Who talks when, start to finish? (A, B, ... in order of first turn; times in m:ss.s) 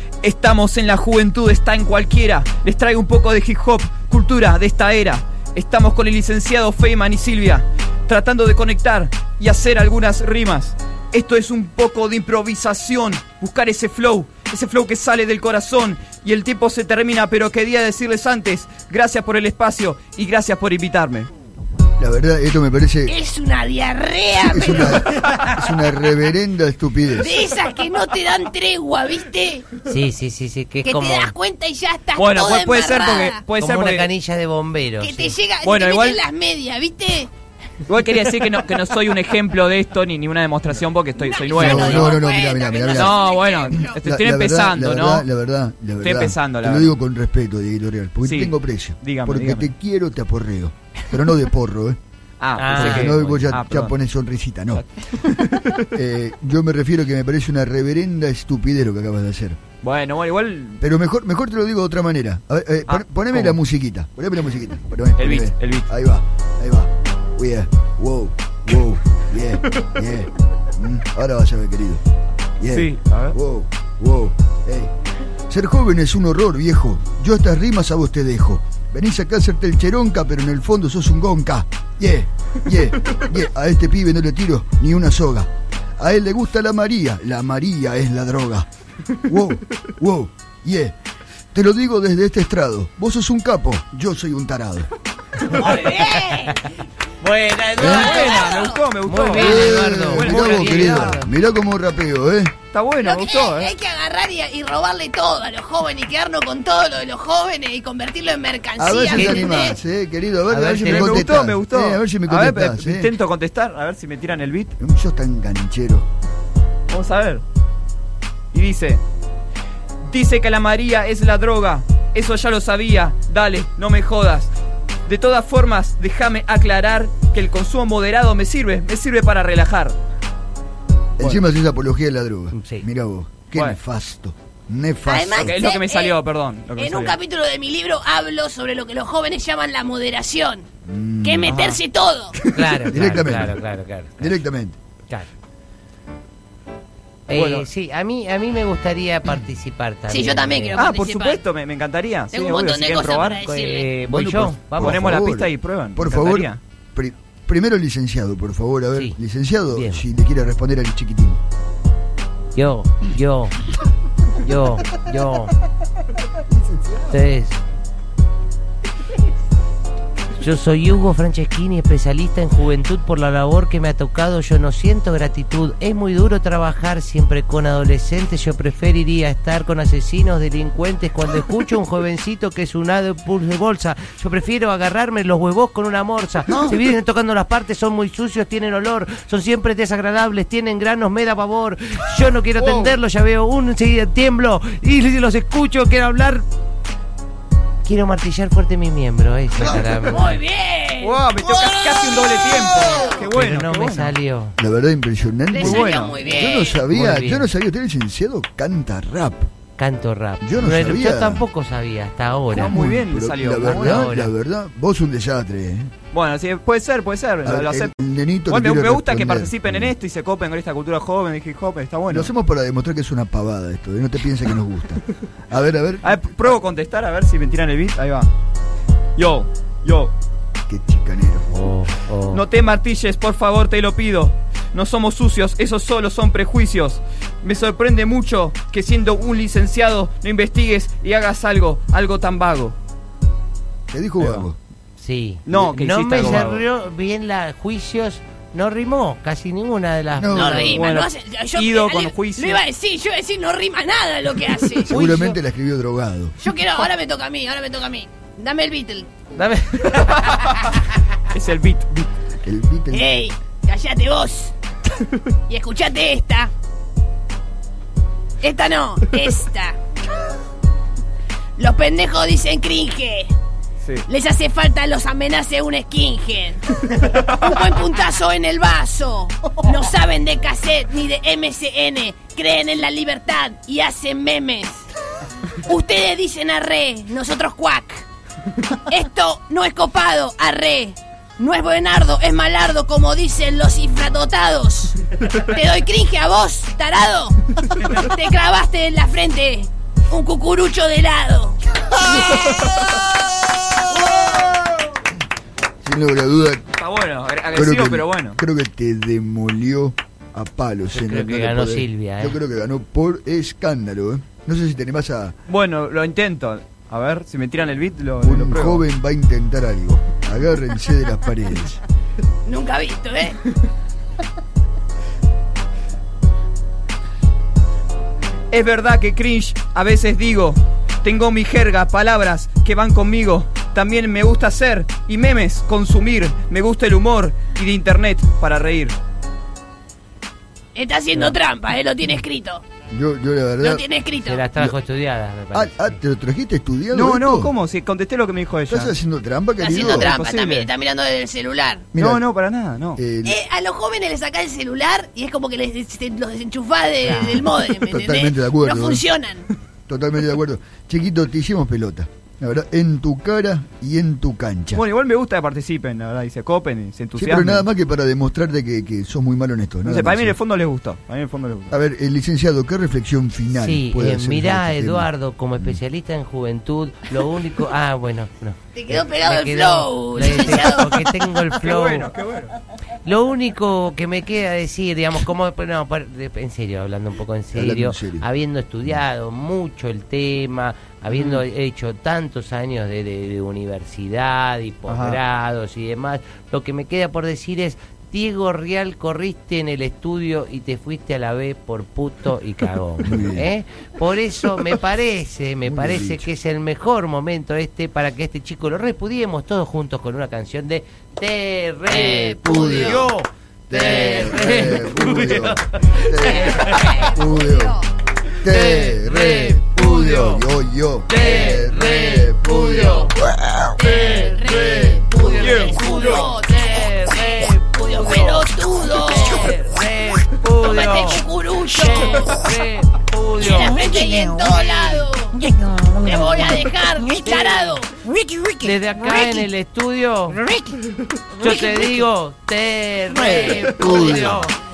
0:00.2-0:21.3 A
0:22.0-0:23.1 B
0:23.0-0:25.5 C
0:24.4-0:27.3 B
0:27.2-0:29.7 C
0:29.8-0:31.3 D
0:30.8-0:33.4 C
0:32.1-0:34.1 A
0:33.6-0:35.3 D
0:35.0-0:37.3 C
0:35.6-0:36.2 A
0:37.9-0:42.2 A
0:41.2-0:43.9 C
0:41.5-0:52.0 B
0:42.9-0:45.2 A
0:46.0-0:46.9 A
0:48.2-0:49.7 A
0:52.4-0:53.9 A
0:52.6-0:53.2 D
0:52.7-0:54.8 B
0:54.7-0:55.9 A
0:55.9-0:59.6 B
0:59.8-1:00.8 A
1:00.8-1:12.0 B
1:02.9-1:03.6 A
1:05.2-1:05.9 A
1:12.6-1:14.9 B
1:12.6-1:13.4 A
1:15.5-1:28.7 B
1:29.2-1:31.0 B
1:31.5-1:34.9 B
1:35.4-1:36.7 C
1:37.2-1:38.5 D
1:37.6-1:41.1 A
1:37.7-1:38.2 B
1:37.8-1:38.8 C
1:39.0-1:41.3 D
1:39.3-1:42.5 B
1:42.7-1:43.7 A
1:43.0-1:49.8 C
1:48.8-1:53.1 B
1:49.1-1:49.7 D
1:50.5-1:51.3 D
1:50.8-1:54.7 A
1:54.8-1:56.1 B
1:56.9-1:57.4 A
1:58.5-1:59.0 A
2:00.0-2:04.5 A
2:05.1-2:10.0 A
2:11.2-2:15.6 B
2:12.5-2:12.8 D
2:13.5-2:13.8 A
2:15.0-2:16.2 C
2:15.4-2:17.2 A
2:16.8-2:20.6 C
2:20.8-2:21.6 B
2:21.2-2:22.4 C
2:21.4-2:21.8 A
2:22.5-2:24.4 D
2:22.6-2:23.6 B
2:24.2-2:24.8 B
2:27.3-2:30.9 D
2:27.3-2:27.7 A
2:30.1-2:31.4 C
2:30.8-2:36.6 A
2:32.3-2:34.0 C
2:34.0-2:35.2 D
2:34.0-2:41.4 B
2:39.7-2:40.0 D
2:42.5-2:43.6 D
2:44.3-2:45.5 D
2:47.0-2:47.6 D
2:50.4-3:16.4 D
3:06.5-3:06.7 A
3:12.6-3:12.9 A
3:17.8-3:20.4 D
3:19.6-3:23.2 C
3:21.0-3:24.2 A
3:23.3-3:24.6 D
3:24.6-3:29.5 B
3:25.5-3:26.8 C
3:25.6-3:26.2 A
3:26.9-3:27.5 D
3:29.8-3:32.8 D
3:30.4-3:31.4 B
3:32.5-3:34.1 A
3:32.6-3:35.9 B
3:33.6-3:34.3 D
3:36.1-3:37.9 A
3:37.4-3:39.9 B
3:38.5-3:42.3 A
3:42.1-3:46.2 B
3:46.0-3:48.3 A
3:49.2-3:50.1 A
3:50.7-3:51.5 B
3:51.5-3:52.4 D
3:52.3-4:02.8 A
4:03.9-4:04.6 B
4:04.2-4:04.5 A
4:05.0-4:10.9 D
4:05.4-4:06.6 A
4:10.2-4:10.8 B
4:10.3-4:15.0 C
4:10.7-4:12.6 A
4:14.9-4:16.4 B
4:14.9-4:15.4 D
4:16.4-4:19.2 C
4:19.3-4:20.6 D
4:19.9-4:22.1 A
4:22.4-4:23.1 B
4:22.9-4:24.5 C
4:25.5-4:26.5 C
4:28.4-4:29.8 C
4:31.6-4:33.3 C
4:34.0-4:44.8 C
4:45.6-4:48.0 C
4:48.7-5:02.4 C
5:02.1-5:03.0 A
5:05.8-5:06.6 B
5:06.7-5:08.4 A
5:07.5-5:15.4 B
5:10.9-5:12.4 D
5:15.5-5:18.8 A
5:18.2-5:21.8 B
5:22.4-5:23.4 C
5:28.5-5:39.0 A
5:40.7-5:42.6 C
5:42.9-5:43.8 B
5:43.6-5:44.5 C
5:44.2-5:46.0 D
5:45.5-5:47.5 B
5:46.9-5:48.9 A
5:48.7-5:50.1 B
5:49.6-5:51.9 C
5:49.7-5:50.7 A
5:51.9-5:52.3 B
5:52.0-5:53.0 A
5:53.0-5:53.4 B
5:53.2-5:59.5 C
5:57.0-5:57.5 D
5:57.7-5:59.0 B
5:59.9-6:04.8 B
6:04.7-6:07.7 A
6:07.2-6:10.4 B
6:09.8-6:11.8 A
6:11.7-6:15.8 B
6:13.5-6:22.1 D
6:18.8-6:21.2 C
6:21.6-6:22.5 A
6:23.0-6:57.1 D
6:27.5-6:28.2 B
6:31.1-6:31.4 A
6:34.9-6:35.2 A
6:43.0-6:43.5 B
6:45.6-6:46.3 B
6:51.9-6:53.0 C
6:52.5-6:53.1 B
6:53.7-6:57.8 B
6:53.8-6:54.1 C
6:56.2-6:57.8 C
6:58.4-7:03.1 B
6:58.4-7:00.4 D
7:01.1-7:03.2 D
7:03.8-7:09.6 C
7:03.8-7:14.1 D
7:05.4-7:06.2 A
7:10.6-7:12.5 C
7:13.4-7:15.4 C
7:14.2-7:14.9 A
7:15.5-7:16.0 A
7:15.9-7:18.0 C
7:17.2-7:17.8 D
7:18.1-7:18.6 A
7:18.6-7:20.4 D
7:21.3-7:24.6 D
7:21.4-7:21.8 C
7:23.1-7:23.6 A
7:23.2-7:24.4 B